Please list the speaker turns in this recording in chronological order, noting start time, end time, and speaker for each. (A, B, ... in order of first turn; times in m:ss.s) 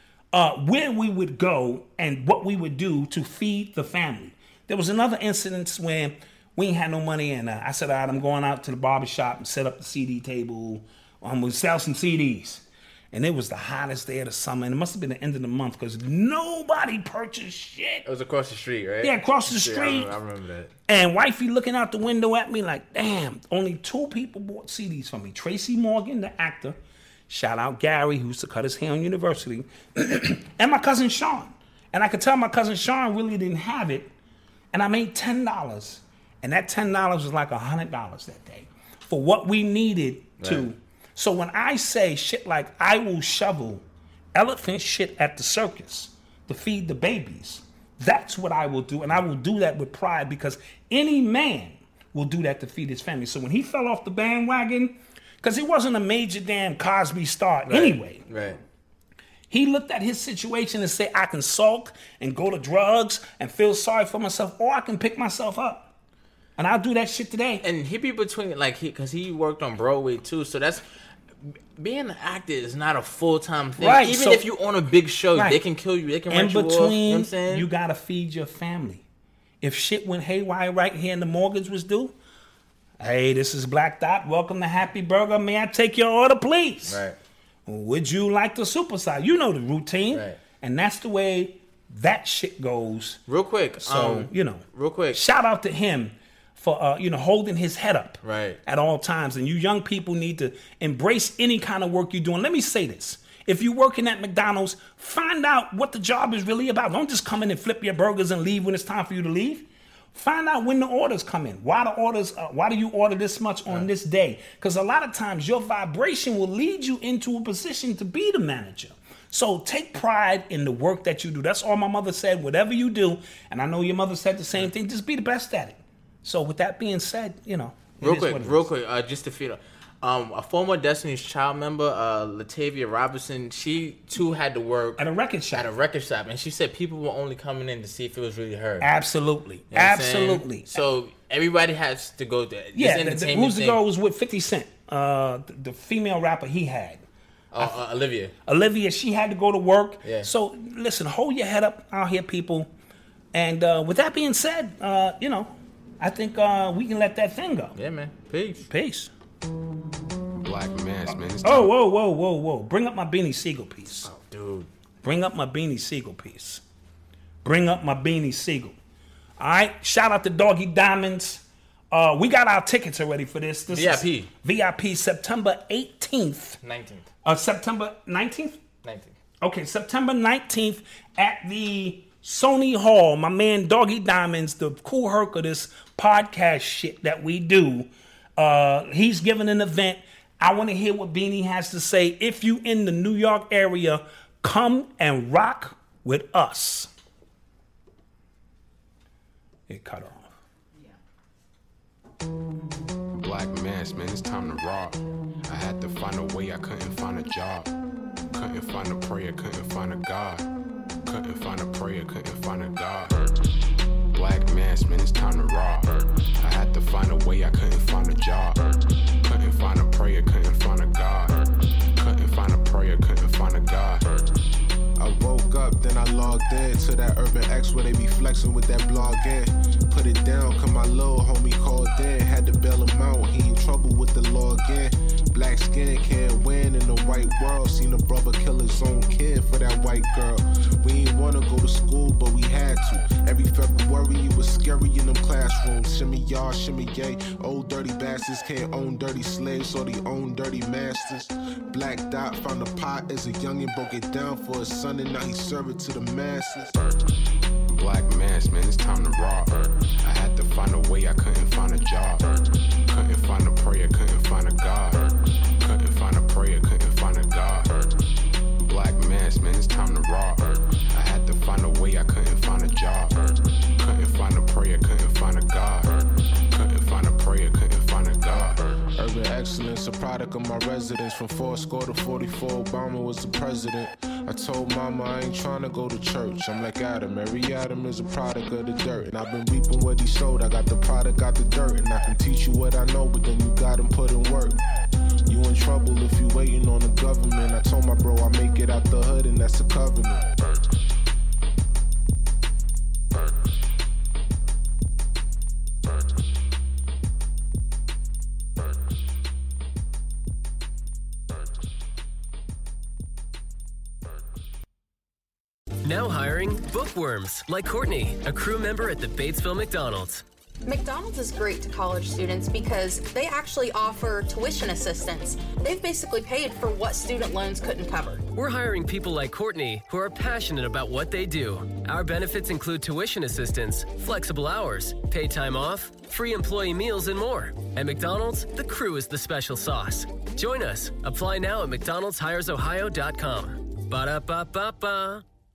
0:00.3-0:18.0 A
0:18.0-0:20.7 B
0:19.0-0:20.1 A
0:20.9-0:26.8 A
0:27.3-0:34.1 A
0:34.7-0:43.8 A
0:40.4-0:40.7 B
0:44.3-0:58.2 A
0:57.7-0:58.6 B
0:59.5-1:05.9 A
1:06.6-1:07.6 A
1:07.6-1:10.8 B
1:11.8-1:17.7 B
1:13.8-1:14.4 A
1:15.3-1:15.6 A
1:16.3-1:19.0 A
1:19.6-1:22.1 A
1:23.0-1:27.0 A
1:26.8-1:27.2 B
1:27.6-1:33.2 A
1:30.1-1:30.4 B
1:33.3-1:35.2 B
1:33.8-2:08.7 A
1:38.2-1:38.6 B
2:08.0-2:18.9 B
2:15.0-2:15.7 A
2:18.8-2:20.8 A
2:19.7-2:23.8 B
2:22.7-2:27.0 A
2:27.5-2:28.3 B
2:28.4-2:32.7 A
2:30.0-2:30.3 B
2:33.3-2:37.7 A
2:37.8-2:38.7 B
2:38.7-2:39.1 A
2:40.4-2:41.7 C
2:41.4-2:44.1 A
2:44.0-2:44.7 B
2:45.0-2:46.6 A
2:47.4-2:48.8 A
2:49.4-2:56.6 A
2:53.7-2:54.3 B
2:56.6-2:57.1 B
2:57.2-2:58.6 A
2:58.8-2:59.1 B
2:59.4-3:16.9 A
3:19.7-3:20.4 A
3:23.1-3:27.7 C
3:28.3-3:30.5 C
3:31.0-3:33.5 C
3:34.1-3:44.3 C
3:45.0-4:16.7 D
4:17.7-4:28.0 C
4:28.6-4:38.8 C
4:39.0-4:54.6 D
4:55.3-5:00.3 D
5:15.8-5:20.2 E
5:20.6-5:28.2 F
5:28.3-5:45.2 E